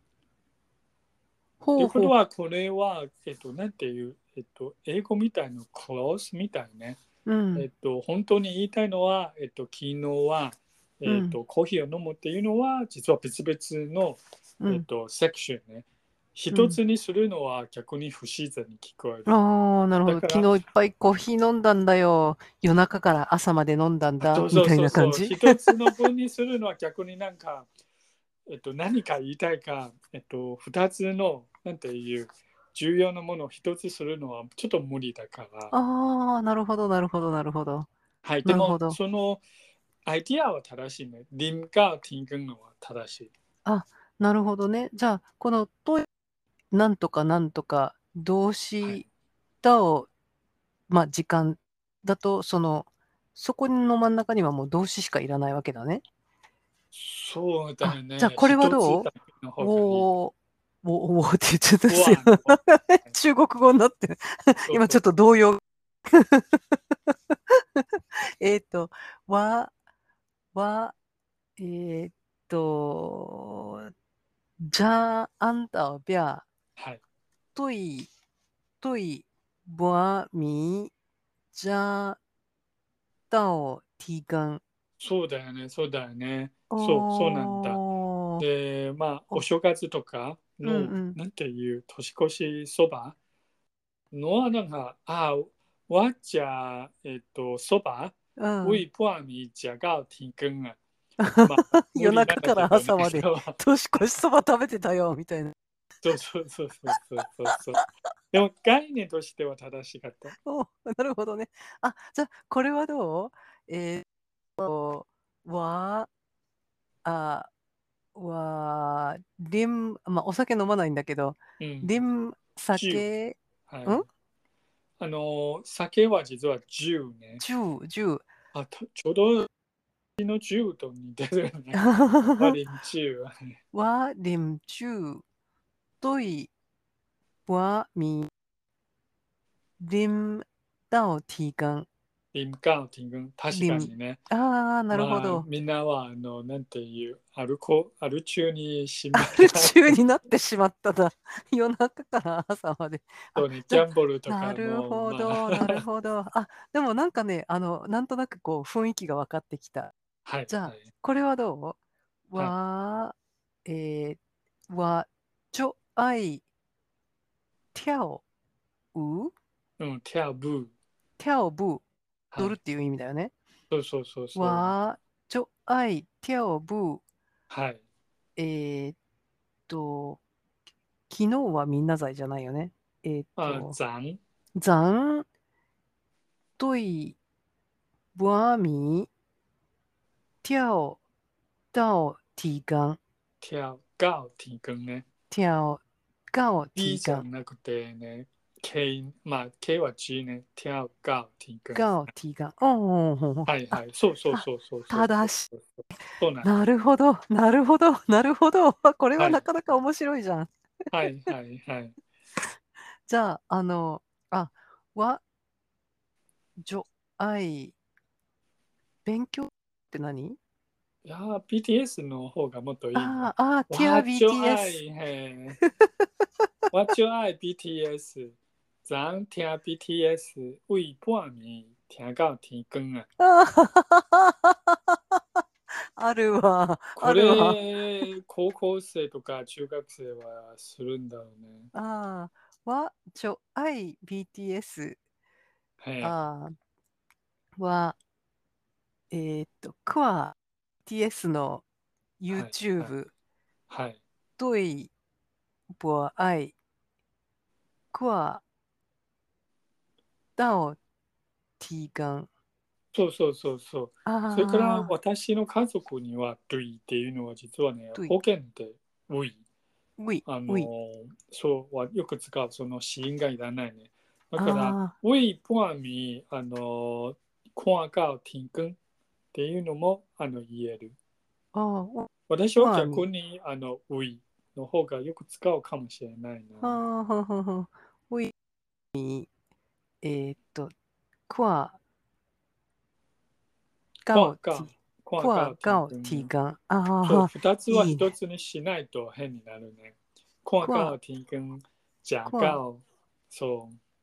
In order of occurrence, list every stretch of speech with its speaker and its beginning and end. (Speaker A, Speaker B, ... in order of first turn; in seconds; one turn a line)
Speaker A: 1.6-2.1
Speaker B: 1.8-7.0
Speaker A: 7.2-7.7
Speaker B: 7.5-19.4
Speaker A: 11.1-11.3
Speaker A: 16.5-16.8
Speaker A: 19.2-25.9
Speaker B: 20.1-20.6
Speaker B: 24.2-27.7
Speaker B: 28.5-35.7
Speaker A: 35.7-37.9
Speaker B: 38.2-39.4
Speaker A: 38.4-39.0
Speaker B: 40.0-43.3
Speaker A: 43.6-46.1
Speaker A: 46.7-49.0
Speaker A: 49.6-50.1
Speaker A: 50.9-56.0
Speaker B: 56.9-60.0
Speaker A: 57.8-69.7
Speaker B: 61.9-63.1
Speaker B: 64.7-65.0
Speaker A: 70.5-70.9
Speaker A: 71.6-73.9
Speaker A: 74.6-76.4
Speaker B: 76.8-77.0
Speaker A: 77.5-78.1
Speaker A: 78.8-80.9
Speaker A: 81.5-82.2
Speaker A: 83.3-84.6
Speaker B: 85.0-87.8
Speaker A: 86.7-88.4
Speaker B: 88.4-93.2
Speaker A: 90.6-91.2
Speaker B: 94.1-100.8
Speaker A: 98.4-98.8
Speaker A: 101.2-105.5
Speaker B: 101.4-103.6
Speaker B: 106.0-110.3
Speaker A: 110.4-114.0
Speaker A: 114.6-116.1
Speaker A: 117.0-117.5
Speaker A: 118.1-124.0
Speaker B: 121.6-122.0
Speaker B: 122.7-123.0
Speaker B: 123.7-124.0
Speaker B: 125.0-127.4
Speaker A: 127.4-128.2
Speaker B: 128.5-129.5
Speaker B: 130.2-133.6
Speaker A: 131.8-132.6
Speaker A: 133.7-135.2
Speaker A: 136.0-136.5
Speaker A: 137.5-138.3
Speaker A: 139.8-141.9
Speaker B: 142.3-144.2
Speaker A: 143.5-145.5
Speaker B: 144.9-149.9
Speaker A: 149.1-159.9
Speaker B: 153.3-155.8
Speaker B: 160.2-160.8
Speaker A: 160.5-161.8
Speaker A: 162.3-163.1
Speaker A: 163.6-166.4
Speaker A: 167.7-168.2
Speaker A: 168.9-169.3
Speaker B: 169.8-170.7
Speaker A: 171.2-171.8
Speaker A: 172.4-173.3
Speaker B: 173.7-174.7
Speaker A: 174.3-177.0
Speaker B: 177.5-177.8
Speaker A: 178.4-178.9
Speaker A: 179.7-180.2
Speaker A: 181.1-183.8
Speaker B: 183.4-184.2
Speaker A: 184.6-185.3
Speaker A: 186.6-187.2
Speaker A: 188.1-189.1
Speaker A: 190.4-191.0
Speaker A: 191.7-193.0
Speaker B: 193.4-195.0
Speaker A: 195.3-197.2
Speaker B: 196.8-201.9
Speaker A: 201.7-203.8
Speaker B: 203.4-206.5
Speaker A: 204.3-205.4
Speaker A: 206.4-210.5
Speaker B: 209.2-209.4
Speaker B: 210.9-212.0
Speaker A: 213.1-215.2
Speaker A: 216.6-217.8
Speaker A: 219.0-220.4
Speaker B: 221.0-225.6
Speaker A: 222.9-224.8
Speaker A: 225.8-226.0
Speaker B: 226.7-233.1
Speaker A: 233.2-235.2
Speaker A: 236.0-238.1
Speaker B: 237.0-241.7
Speaker A: 241.7-245.0
Speaker B: 245.8-246.1
Speaker A: 246.0-246.5
Speaker A: 247.6-247.9
Speaker A: 249.1-251.6
Speaker A: 252.2-253.1
Speaker B: 252.3-252.9
Speaker B: 253.7-254.0
Speaker A: 254.4-254.9
Speaker A: 255.8-256.6
Speaker A: 257.9-258.4
Speaker A: 260.4-260.8
Speaker A: 261.6-262.3
Speaker B: 262.9-269.4
Speaker A: 264.1-264.9
Speaker A: 270.0-270.7
Speaker B: 270.2-278.8
Speaker A: 274.4-274.9
Speaker B: 279.3-280.9
Speaker A: 281.5-283.1
Speaker B: 282.3-286.8
Speaker A: 286.6-288.3
Speaker A: 288.9-289.3
Speaker A: 290.0-290.7
Speaker A: 291.3-291.8
Speaker A: 294.0-298.1
Speaker B: 294.1-296.3
Speaker B: 297.0-303.8
Speaker A: 300.6-301.0
Speaker A: 302.3-302.6